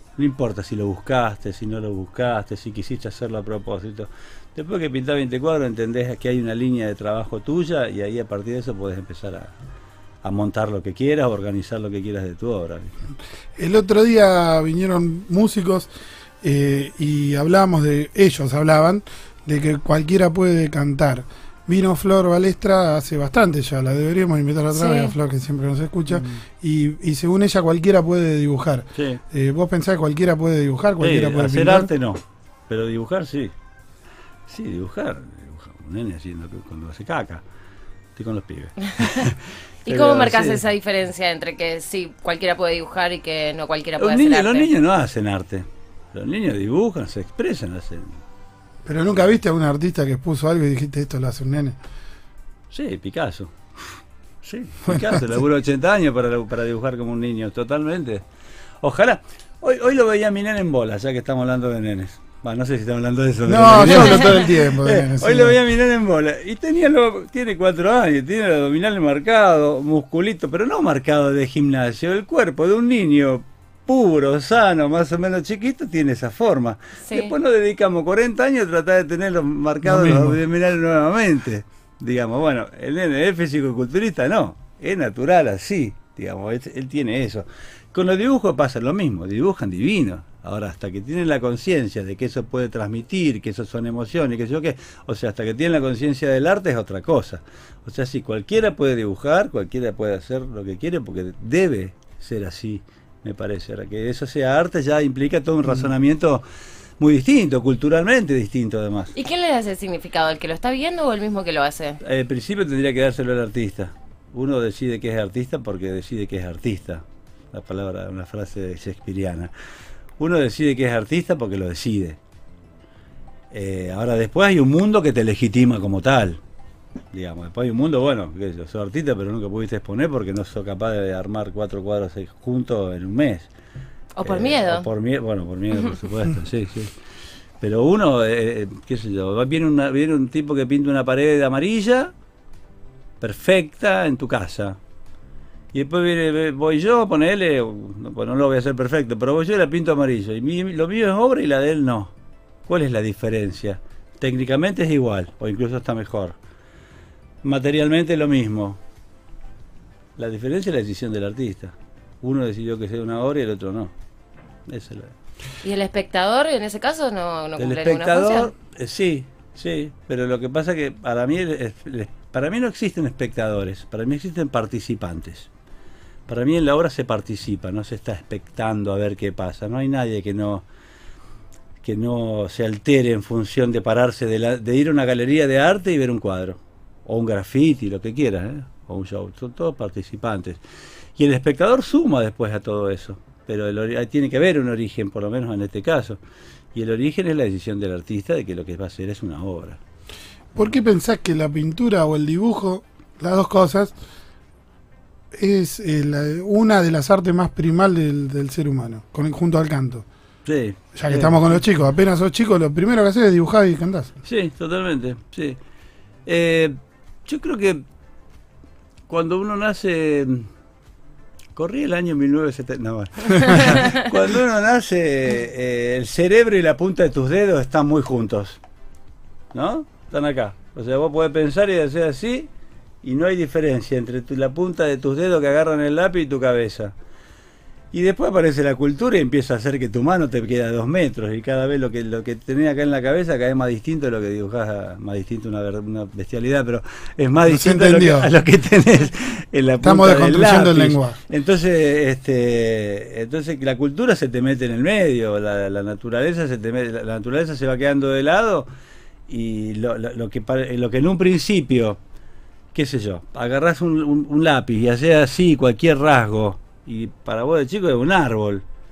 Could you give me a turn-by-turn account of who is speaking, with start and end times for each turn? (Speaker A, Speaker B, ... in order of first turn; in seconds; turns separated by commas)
Speaker A: 0.2-9.5, Speaker A: 10.2-12.9, Speaker B: 13.6-15.9, Speaker B: 16.4-31.9, Speaker C: 24.7-25.1, Speaker A: 26.1-26.4, Speaker A: 28.9-29.2, Speaker A: 31.0-33.5, Speaker A: 34.5-37.4, Speaker A: 38.1-40.6, Speaker C: 39.8-44.7, Speaker A: 44.0-48.2, Speaker B: 48.9-51.8, Speaker A: 52.7-53.5, Speaker A: 54.4-58.2, Speaker A: 58.8-106.4, Speaker B: 63.5-65.6, Speaker C: 77.0-77.3, Speaker B: 79.8-80.4, Speaker A: 107.0-109.1, Speaker C: 109.1-112.0, Speaker A: 112.0-119.5, Speaker A: 120.2-122.2, Speaker A: 123.5-126.4, Speaker A: 127.1-133.5, Speaker C: 134.2-134.8, Speaker A: 134.2-136.9, Speaker A: 137.6-142.1, Speaker A: 143.2-144.8, Speaker A: 145.7-152.1, Speaker A: 152.7-156.3, Speaker A: 157.4-158.8, Speaker A: 160.2-163.9, Speaker A: 164.7-165.1, Speaker C: 165.6-168.5, Speaker A: 167.6-175.5, Speaker A: 176.3-180.6, Speaker A: 181.8-190.6, Speaker A: 191.2-196.2, Speaker A: 196.7-199.8, Speaker B: 200.5-203.9, Speaker B: 205.3-210.0, Speaker A: 210.4-211.6, Speaker B: 210.9-214.1, Speaker A: 214.2-215.6, Speaker A: 216.2-216.7, Speaker A: 217.2-217.8, Speaker A: 219.1-220.5, Speaker A: 221.6-228.6, Speaker A: 229.5-232.5, Speaker A: 233.0-236.9, Speaker A: 237.9-258.6, Speaker B: 247.4-248.3, Speaker B: 249.8-251.2, Speaker A: 259.3-262.0, Speaker A: 262.7-268.6